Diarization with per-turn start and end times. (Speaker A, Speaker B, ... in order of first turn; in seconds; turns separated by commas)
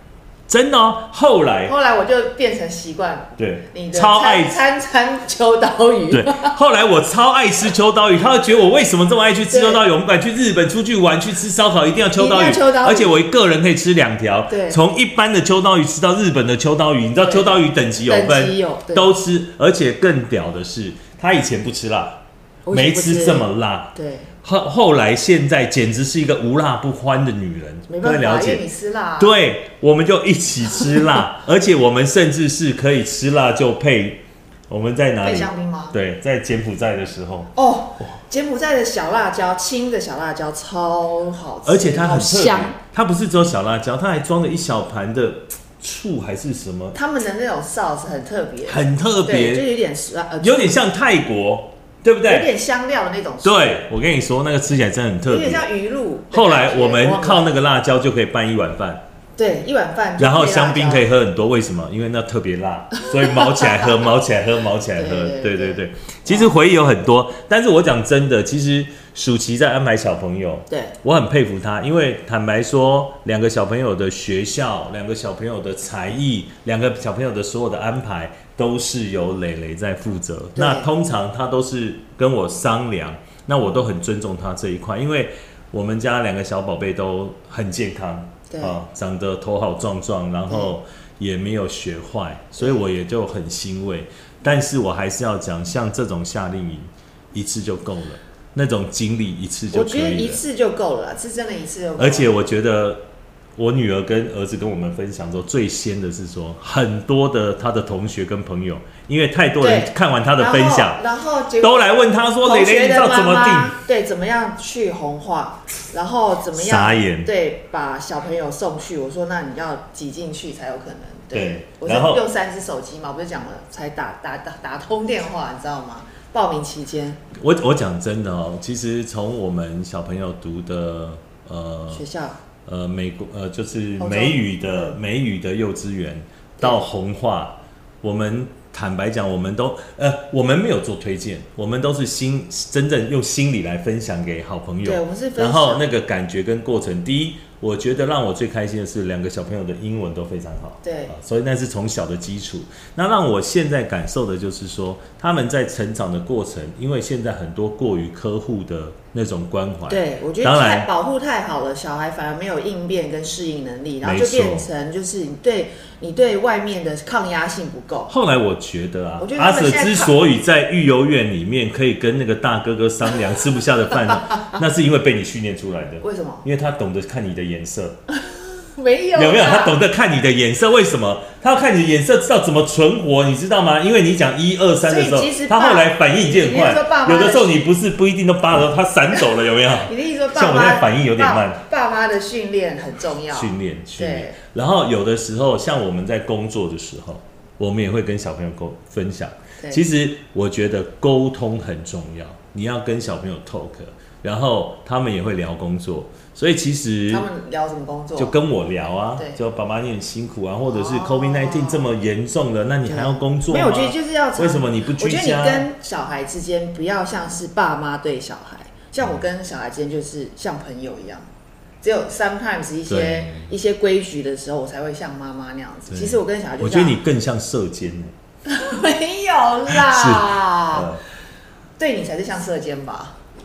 Speaker A: 0.5-1.7, Speaker B: 1.6-6.5, Speaker A: 3.4-4.6, Speaker A: 6.1-28.6, Speaker B: 9.5-9.8, Speaker B: 12.2-13.2, Speaker B: 14.5-14.8, Speaker B: 17.2-19.1, Speaker B: 22.6-24.3, Speaker B: 27.9-29.3, Speaker A: 29.2-37.5, Speaker B: 35.2-36.0, Speaker B: 37.5-42.8, Speaker A: 41.6-47.0, Speaker B: 46.9-50.8, Speaker A: 48.6-49.7, Speaker A: 50.4-52.5, Speaker B: 52.3-53.8, Speaker A: 53.4-55.6, Speaker B: 55.3-57.5, Speaker A: 56.3-59.0, Speaker B: 59.4-61.1, Speaker A: 60.2-100.4, Speaker B: 63.0-63.9, Speaker B: 64.9-66.6, Speaker B: 70.7-70.9, Speaker B: 80.5-80.9, Speaker B: 88.5-88.8, Speaker B: 90.5-90.7, Speaker B: 99.7-102.3, Speaker A: 102.0-103.0, Speaker A: 103.6-111.0, Speaker B: 109.6-127.2, Speaker A: 111.6-113.8, Speaker A: 116.5-117.3, Speaker A: 121.3-122.2, Speaker A: 127.3-132.0, Speaker B: 131.9-132.4, Speaker A: 132.7-160.9, Speaker B: 134.0-135.0, Speaker B: 136.6-136.8, Speaker B: 144.8-145.8, Speaker B: 150.8-151.1, Speaker B: 159.9-168.1, Speaker A: 164.0-164.7, Speaker A: 168.1-177.9, Speaker B: 169.2-170.2, Speaker B: 176.0-176.4, Speaker B: 178.1-179.8, Speaker A: 179.2-191.6, Speaker B: 184.8-187.7, Speaker B: 189.8-194.3, Speaker A: 193.3-207.3, Speaker B: 207.1-208.3, Speaker A: 208.2-215.7, Speaker B: 210.7-211.9, Speaker B: 212.8-221.2, Speaker B: 221.8-227.0, Speaker A: 222.9-223.5, Speaker A: 225.9-228.1, Speaker B: 228.4-230.9, Speaker A: 229.7-231.0, Speaker B: 231.8-233.2